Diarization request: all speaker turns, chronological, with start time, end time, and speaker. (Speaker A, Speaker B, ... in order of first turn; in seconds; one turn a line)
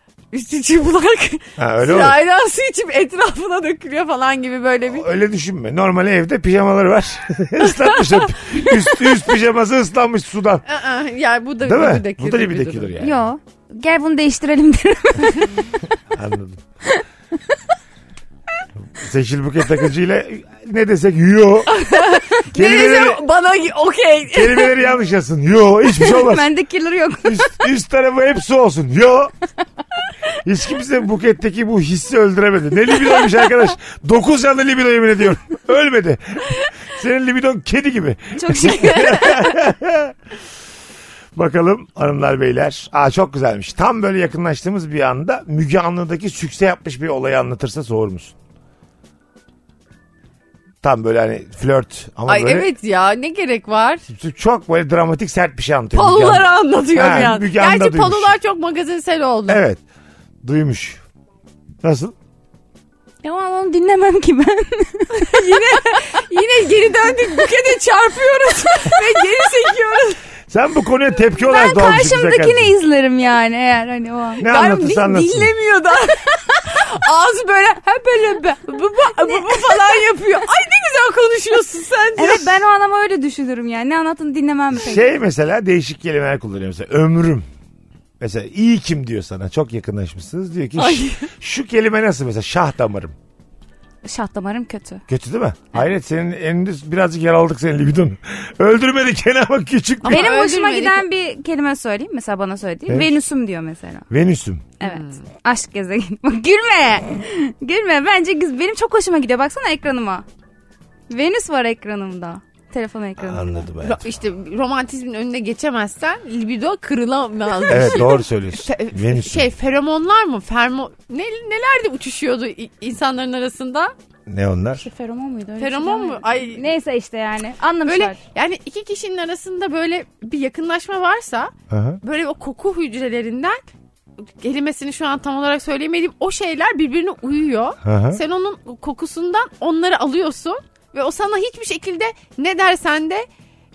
Speaker A: 0.3-5.1
Speaker B: 1.6-2.2
Speaker B: 4.9-10.6
Speaker A: 7.6-8.8
Speaker A: 10.7-12.9
Speaker B: 11.6-13.2
Speaker C: 13.0-15.5
Speaker B: 16.1-16.6
Speaker B: 18.9-21.7
Speaker A: 21.7-24.8
Speaker B: 22.5-23.2
Speaker B: 24.3-26.5
Speaker C: 25.9-27.6
Speaker B: 27.2-29.3
Speaker B: 30.4-40.1
Speaker C: 38.3-39.5
Speaker B: 41.3-48.3
Speaker B: 50.8-52.7
Speaker A: 52.3-54.0
Speaker B: 54.1-58.3
Speaker A: 55.9-59.6
Speaker B: 59.5-59.8
Speaker B: 60.4-61.0
Speaker B: 61.8-62.1
Speaker C: 63.2-65.9
Speaker A: 65.2-70.2
Speaker B: 70.5-72.7
Speaker C: 71.3-74.4
Speaker B: 74.4-75.5
Speaker A: 74.4-82.5
Speaker C: 79.1-80.0
Speaker C: 82.2-85.1
Speaker B: 84.8-87.5
Speaker B: 88.2-93.1
Speaker A: 90.8-91.3
Speaker C: 94.0-95.0
Speaker B: 95.1-100.3
Speaker A: 100.0-101.0
Speaker C: 100.1-104.0
Speaker B: 102.9-103.2
Speaker B: 104.1-104.7
Speaker C: 104.8-110.2
Speaker A: 104.8-105.2
Speaker C: 111.1-113.7
Speaker B: 113.2-114.1
Speaker A: 113.8-123.9
Speaker B: 117.7-119.5
Speaker B: 124.3-124.8
Speaker C: 124.8-128.2
Speaker A: 125.6-126.6
Speaker A: 127.9-133.6
Speaker B: 131.7-132.0
Speaker A: 134.4-143.3
Speaker B: 137.8-138.2